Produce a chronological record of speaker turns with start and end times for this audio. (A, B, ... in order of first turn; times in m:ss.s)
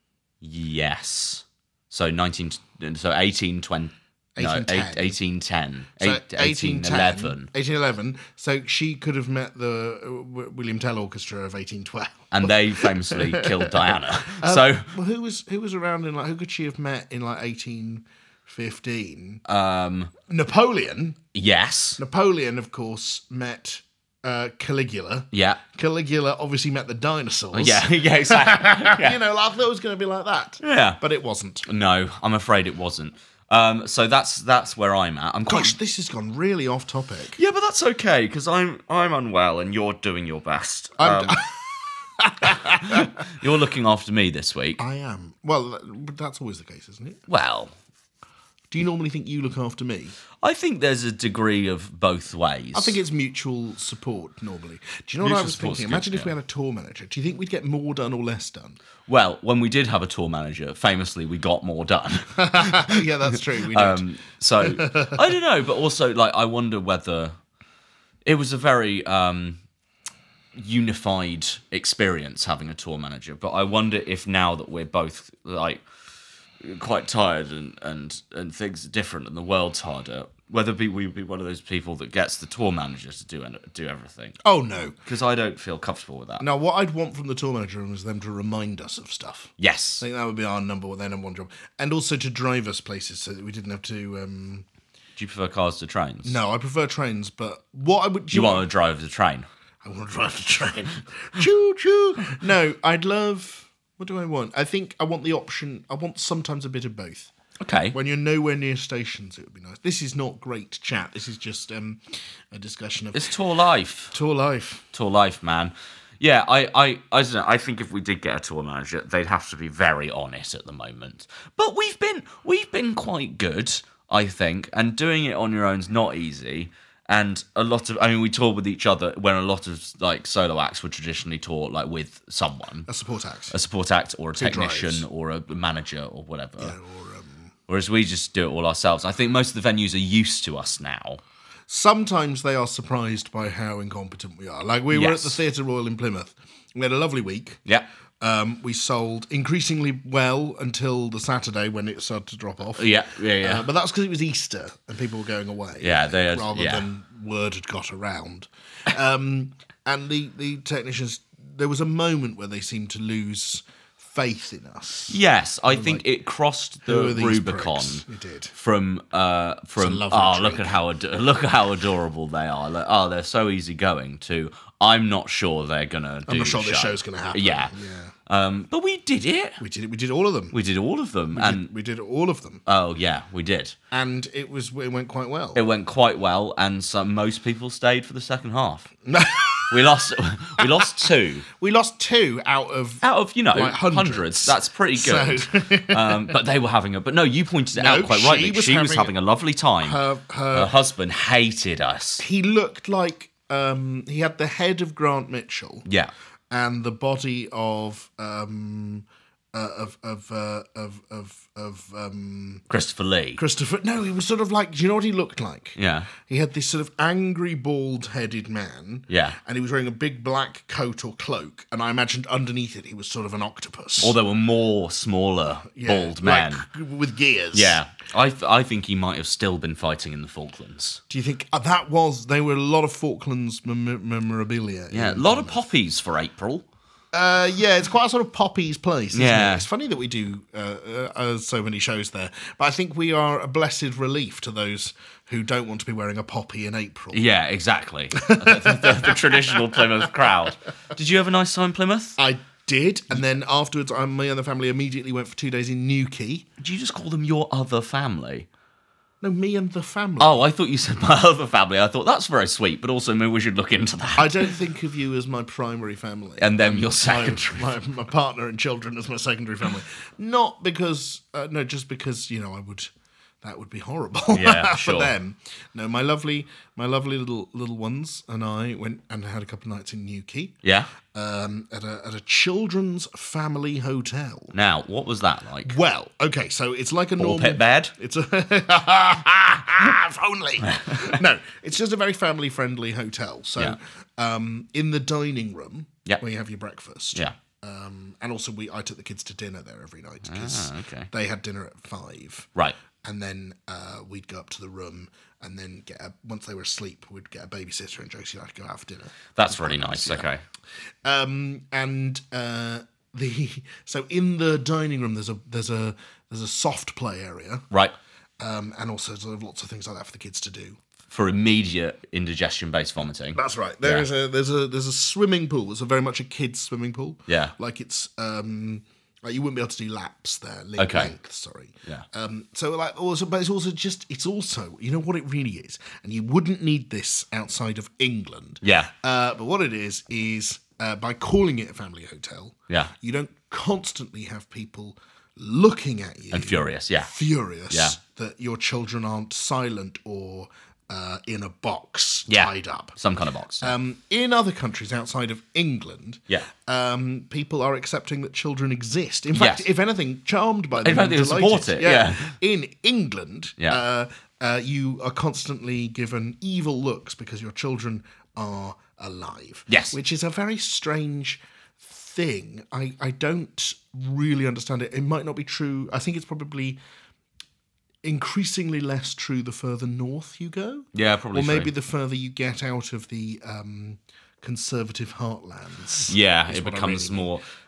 0:00.4-0:07.5 A
0:04.4-0:05.2 B
0:06.0-0:19.4 B
0:12.3-0:14.9 A
0:19.5-0:20.1 A
0:20.3-0:21.2 B
0:21.3-0:22.0 A
0:22.0-0:31.6 B
0:25.3-0:25.6 A
0:27.5-0:29.2 A
0:30.6-0:31.0 A
0:31.6-0:35.8 A
0:35.5-0:37.4 B
0:37.4-0:41.4 A
0:41.0-0:43.1 B
0:42.4-0:44.8 A
0:44.8-0:47.2 B
0:47.3-0:47.7 A
0:48.7-0:50.2 B
0:50.4-0:53.0 A
0:52.7-0:58.8 B
0:55.2-0:56.3 A
0:59.1-1:07.3 A
1:02.4-1:04.0 B
1:04.6-1:05.2 B
1:08.2-1:09.6 A
1:10.6-1:15.8 A
1:16.6-1:24.4 A
1:24.4-1:25.0 B
1:25.0-1:26.4 A
1:26.4-1:34.7 B
1:29.6-1:30.0 A
1:35.2-1:36.4 A
1:36.2-1:38.7 B
1:38.3-1:39.5 A
1:39.8-1:47.3 B
1:47.6-1:48.0 A
1:47.9-1:53.3 B
1:53.1-1:54.2 A
1:54.1-1:54.9 B
1:54.9-2:12.9 A
2:12.9-2:13.6 B
2:13.5-2:16.8 A
2:14.4-2:15.0 B
2:16.6-2:17.5 B
2:17.7-2:21.2 A
2:21.7-2:27.6 B
2:24.9-2:25.4 A
2:28.2-2:46.0 B
2:32.8-2:33.7 A
2:35.8-2:36.9 A
2:45.1-2:57.7 A
2:46.9-2:48.5 B
2:49.8-2:50.8 B
2:56.3-2:58.1 B
2:58.3-2:59.6 A
2:59.6-3:00.6 B
3:00.5-3:01.7 A
3:01.3-3:02.6 B
3:02.7-3:03.8 A
3:03.9-3:05.6 B
3:05.6-3:08.9 A
3:09.1-3:09.8 B
3:09.7-3:11.5 A
3:10.6-3:16.3 B
3:13.0-3:22.2 A
3:17.8-3:19.1 B
3:19.8-3:20.7 B
3:22.2-3:25.9 B
3:25.9-3:26.1 A
3:26.5-3:32.6 B
3:32.7-3:33.4 A
3:33.4-3:44.2 B
3:35.8-3:36.1 A
3:39.1-3:39.4 A
3:44.0-3:46.7 A
3:45.8-3:47.8 B
3:47.5-3:51.0 A
3:51.1-3:55.6 B
3:54.9-3:56.6 A
3:57.1-4:07.2 B
3:59.1-3:59.7 A
4:07.1-4:12.2 A
4:08.2-4:10.1 B
4:12.2-4:16.5 B
4:16.6-4:18.5 A
4:19.2-4:20.4 B
4:20.2-4:24.5 A
4:24.2-4:32.9 B
4:26.4-4:27.7 A
4:33.4-4:44.5 B
4:34.3-4:35.1 A
4:40.6-4:40.9 A
4:44.5-4:45.8 A
4:45.6-5:02.5 B
4:47.2-4:47.9 A
4:50.6-4:51.2 A
5:00.2-5:01.1 A
5:03.0-5:10.3 B
5:09.4-5:10.4 A
5:11.0-5:17.6 B
5:18.4-5:20.8 B
5:21.1-5:24.1 A
5:23.4-5:53.0 B
5:27.3-5:27.5 A
5:30.8-5:31.1 A
5:38.6-5:38.9 A
5:46.3-5:47.1 A
5:47.7-5:48.0 A
5:52.3-5:53.8 A
5:53.6-6:16.8 B
5:59.4-5:59.7 A
6:00.8-6:02.4 A
6:09.7-6:10.0 A
6:18.0-6:27.3 B
6:20.9-6:21.7 A
6:26.1-6:27.4 A